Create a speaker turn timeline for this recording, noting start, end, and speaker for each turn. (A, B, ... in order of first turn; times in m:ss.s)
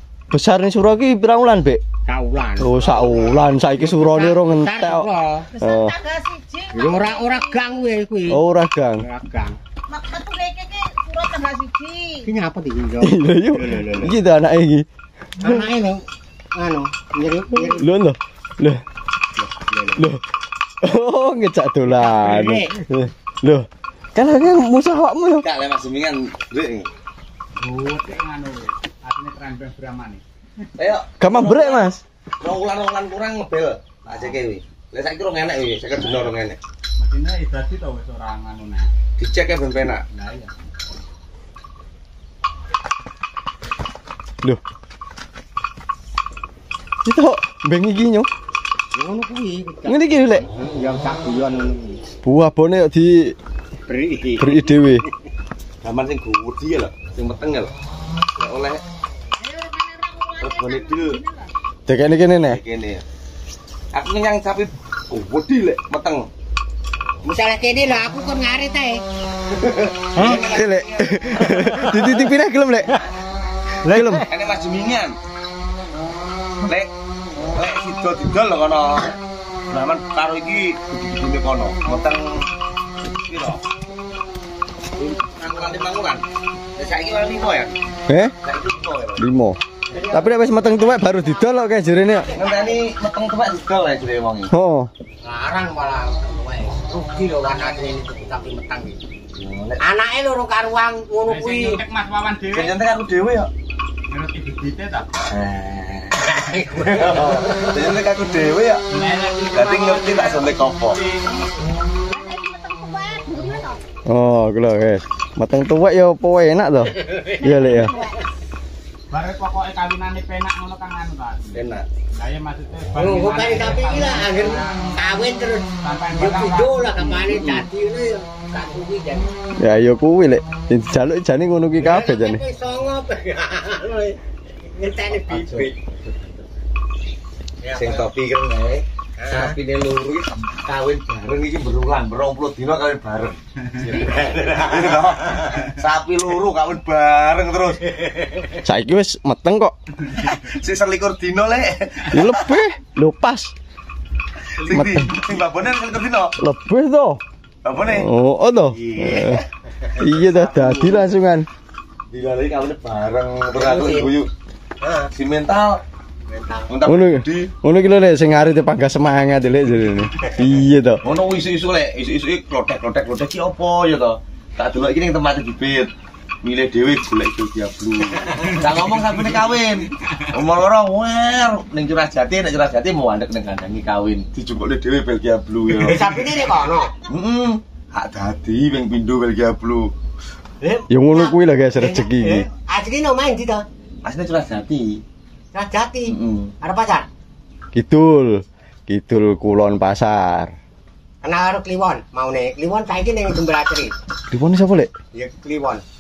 0:00.3-0:01.8 A
0:02.0-0:05.5 B
0:02.6-0:05.1 A
0:05.5-0:07.6 C
0:05.6-0:05.9 A
0:06.7-0:08.4 B
0:08.3-0:09.0 A
0:09.0-0:09.6 B
0:09.9-0:12.3 C
0:12.2-0:14.2 B
0:13.0-0:14.8 A
0:15.4-0:17.9 B
0:17.6-0:18.8 A
0:19.4-0:20.0 B
0:20.0-0:20.2 A
0:20.8-0:25.4 A
0:22.0-0:22.7 B
0:25.4-0:26.9 D
0:27.6-0:30.2 C
0:30.8-0:36.6 D
0:31.2-0:32.0 A
0:37.0-0:38.9 C
0:39.2-0:40.0 D
0:40.1-0:40.5 C
0:47.0-0:48.3 A
0:48.9-0:52.0 B
0:49.8-0:50.4 A
0:52.2-0:53.4 A
0:53.9-0:54.7 B
0:54.4-0:55.0 A
0:55.8-0:57.7 D
0:58.4-0:58.8 D
0:59.4-1:01.5 C
1:00.4-1:01.2 D
1:01.9-1:02.6 A
1:02.4-1:03.0 D
1:03.9-1:06.3 D
1:07.2-1:09.0 B
1:09.6-1:12.0 D
1:10.1-1:10.4 B
1:10.4-1:12.9 A
1:13.8-1:14.2 B
1:13.9-1:14.3 A
1:14.2-1:15.2 D
1:16.6-1:16.9 D
1:17.5-1:19.2 D
1:19.7-1:22.5 D
1:23.0-1:23.6 D
1:25.0-1:25.8 B
1:25.3-1:26.2 D
1:26.8-1:27.8 D
1:28.1-1:28.3 A
1:28.4-1:29.2 D
1:29.2-1:32.3 A
1:29.9-1:30.4 B
1:32.3-1:34.5 D
1:32.4-1:32.7 B
1:34.5-1:34.9 A
1:35.2-1:39.0 B
1:39.4-1:39.8 D
1:39.8-1:41.8 B
1:41.2-1:42.8 C
1:42.5-1:43.5 D
1:44.1-1:45.1 C
1:45.3-1:48.8 D
1:46.4-1:47.4 B
1:48.9-1:51.4 C
1:49.5-1:51.0 D
1:52.1-1:53.8 C
1:54.1-1:58.0 A
1:57.4-1:58.2 C
1:59.1-2:05.2 C
2:01.5-2:01.9 D
2:02.9-2:09.3 B
2:05.7-2:07.2 C
2:07.2-2:07.7 A
2:09.6-2:12.4 A
2:11.8-2:15.7 B
2:15.2-2:15.7 D
2:17.6-2:18.0 B
2:17.7-2:28.5 D
2:19.2-2:19.5 B
2:28.6-2:29.7 A
2:30.1-2:32.6 D
2:32.1-2:33.5 A
2:34.6-2:36.4 D
2:34.7-2:35.1 A
2:36.4-2:37.2 A
2:37.6-2:38.1 D
2:37.9-2:39.4 A
2:38.7-2:39.4 D
2:40.0-2:41.5 A
2:42.1-2:44.3 D
2:43.5-2:44.1 B
2:44.8-2:45.1 B
2:45.1-2:45.8 D
2:46.3-2:46.7 B
2:46.7-2:47.5 D
2:46.8-2:51.0 A
2:51.0-2:55.9 D
2:56.4-3:06.4 D
3:05.7-3:06.9 B
3:07.1-3:09.9 D
3:10.6-3:13.6 B
3:10.9-3:12.5 A
3:14.0-3:15.0 D
3:15.5-3:17.1 B
3:16.1-3:16.5 D
3:17.7-3:20.5 A
3:21.2-3:23.9 B
3:24.3-3:24.9 A
3:25.1-3:25.8 B